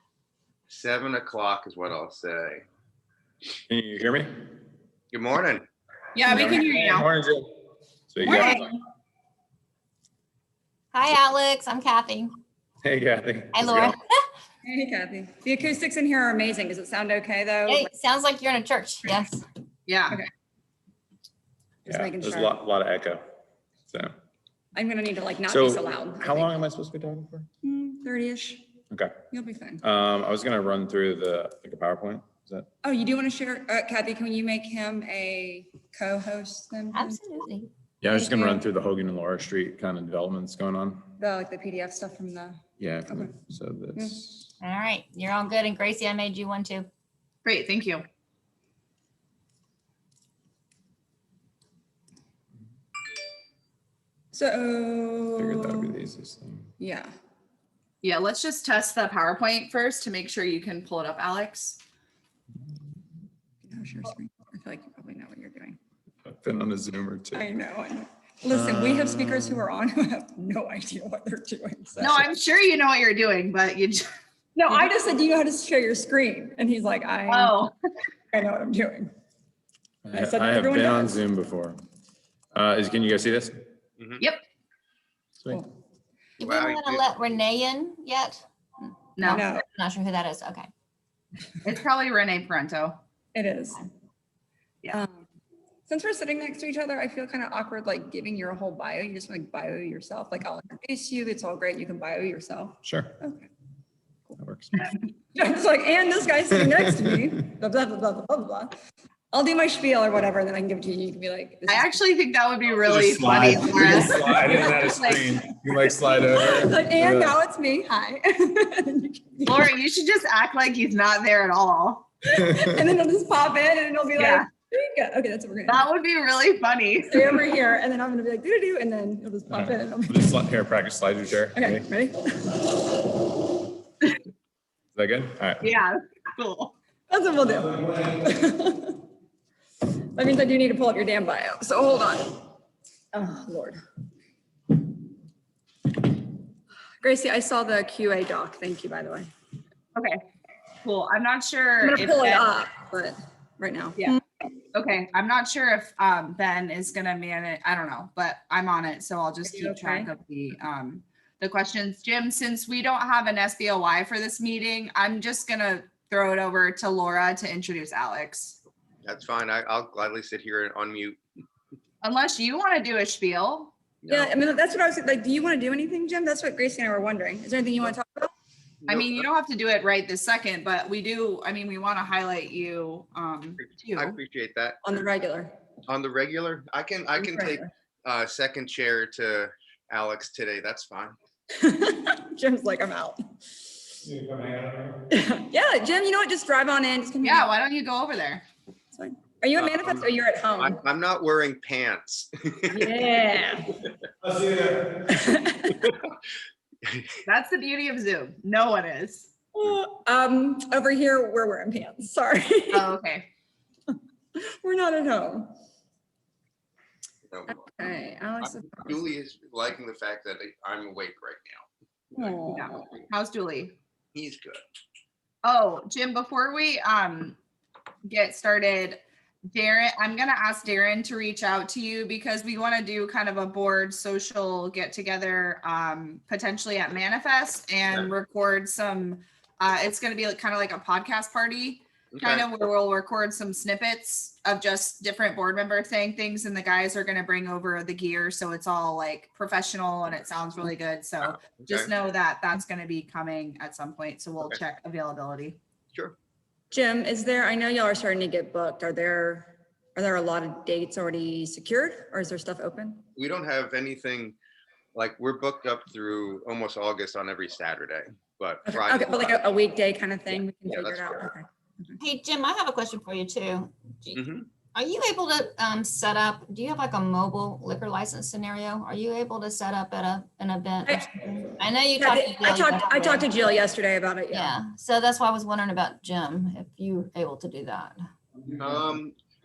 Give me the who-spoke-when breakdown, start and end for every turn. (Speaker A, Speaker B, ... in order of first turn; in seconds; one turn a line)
Speaker A: 0.7-2.6
Speaker B: 3.7-4.3
Speaker A: 5.1-5.7
Speaker C: 6.2-7.1
Speaker B: 6.3-7.6
Speaker B: 8.1-8.7
Speaker C: 8.2-8.7
Speaker D: 8.3-8.7
Speaker D: 10.9-12.3
Speaker B: 12.8-13.9
Speaker D: 13.5-14.0
Speaker E: 14.7-17.9
Speaker D: 17.7-19.4
Speaker C: 19.9-20.2
Speaker E: 21.9-22.6
Speaker B: 21.9-23.3
Speaker E: 24.8-26.5
Speaker B: 25.5-27.5
Speaker E: 27.6-28.6
Speaker B: 28.9-29.2
Speaker E: 29.3-29.8
Speaker B: 29.8-32.7
Speaker E: 32.8-37.2
Speaker D: 36.9-37.7
Speaker B: 38.0-41.1
Speaker E: 38.1-38.7
Speaker E: 41.2-43.3
Speaker B: 42.8-44.5
Speaker E: 44.0-44.2
Speaker D: 44.6-46.9
Speaker C: 47.5-48.0
Speaker E: 54.3-56.0
Speaker B: 55.4-56.7
Speaker E: 56.8-57.1
Speaker C: 58.0-61.8
Speaker E: 63.7-65.8
Speaker B: 66.2-67.5
Speaker E: 67.3-72.3
Speaker B: 68.5-69.6
Speaker C: 72.0-74.0
Speaker E: 74.6-77.7
Speaker C: 77.3-77.7
Speaker E: 78.3-79.1
Speaker B: 80.0-81.8
Speaker E: 80.1-81.2
Speaker B: 82.5-83.7
Speaker D: 86.4-88.4
Speaker A: 86.4-87.0
Speaker C: 89.2-89.4
Speaker D: 89.2-90.7
Speaker E: 89.3-89.7
Speaker C: 91.6-93.0
Speaker E: 93.3-93.8
Speaker E: 94.9-95.2
Speaker E: 95.9-103.5
Speaker B: 102.8-103.1
Speaker B: 104.4-104.9
Speaker E: 105.3-108.7
Speaker B: 106.6-107.2
Speaker E: 109.3-111.9
Speaker C: 111.7-115.2
Speaker B: 112.8-117.4
Speaker E: 113.8-114.7
Speaker E: 115.8-119.7
Speaker C: 119.5-122.1
Speaker E: 122.3-125.8
Speaker B: 122.5-122.8
Speaker C: 124.2-124.5
Speaker C: 125.7-127.3
Speaker E: 127.1-130.3
Speaker B: 129.5-131.9
Speaker E: 131.5-132.7
Speaker B: 134.9-135.7
Speaker C: 135.6-136.8
Speaker E: 137.1-139.0
Speaker E: 140.2-142.4
Speaker E: 143.1-143.8
Speaker E: 147.0-149.3
Speaker C: 149.9-150.2
Speaker C: 150.8-152.6
Speaker E: 151.8-154.2
Speaker C: 154.7-168.6
Speaker E: 159.5-160.1
Speaker A: 169.1-171.2
Speaker C: 172.0-173.8
Speaker A: 174.0-174.3
Speaker E: 174.1-178.3
Speaker A: 178.9-179.3
Speaker C: 178.9-184.2
Speaker A: 183.9-184.8
Speaker E: 184.8-185.5
Speaker A: 185.9-191.2
Speaker E: 187.2-187.7
Speaker E: 191.6-193.3
Speaker B: 194.0-195.1
Speaker E: 195.1-197.5
Speaker C: 197.2-198.5
Speaker E: 198.9-200.8
Speaker A: 199.6-200.1
Speaker A: 200.6-202.9
Speaker E: 202.7-203.8
Speaker B: 204.2-205.1
Speaker E: 205.1-205.9
Speaker A: 206.8-207.2
Speaker C: 207.3-209.4
Speaker E: 209.6-212.9
Speaker C: 212.7-213.3
Speaker E: 213.9-215.6
Speaker A: 217.3-217.6
Speaker E: 217.5-219.1
Speaker A: 218.4-221.7
Speaker E: 222.2-222.9
Speaker C: 222.5-223.8
Speaker A: 224.1-224.6
Speaker C: 225.4-227.4
Speaker C: 228.1-229.0
Speaker C: 229.5-255.6
Speaker A: 242.2-242.6
Speaker A: 251.2-251.9
Speaker E: 256.7-263.0
Speaker A: 263.2-264.4
Speaker A: 264.9-269.5
Speaker E: 268.7-272.0
Speaker A: 270.7-271.3
Speaker D: 272.0-283.3
Speaker A: 274.1-274.5
Speaker E: 282.0-284.6
Speaker D: 284.3-288.0
Speaker A: 288.6-289.2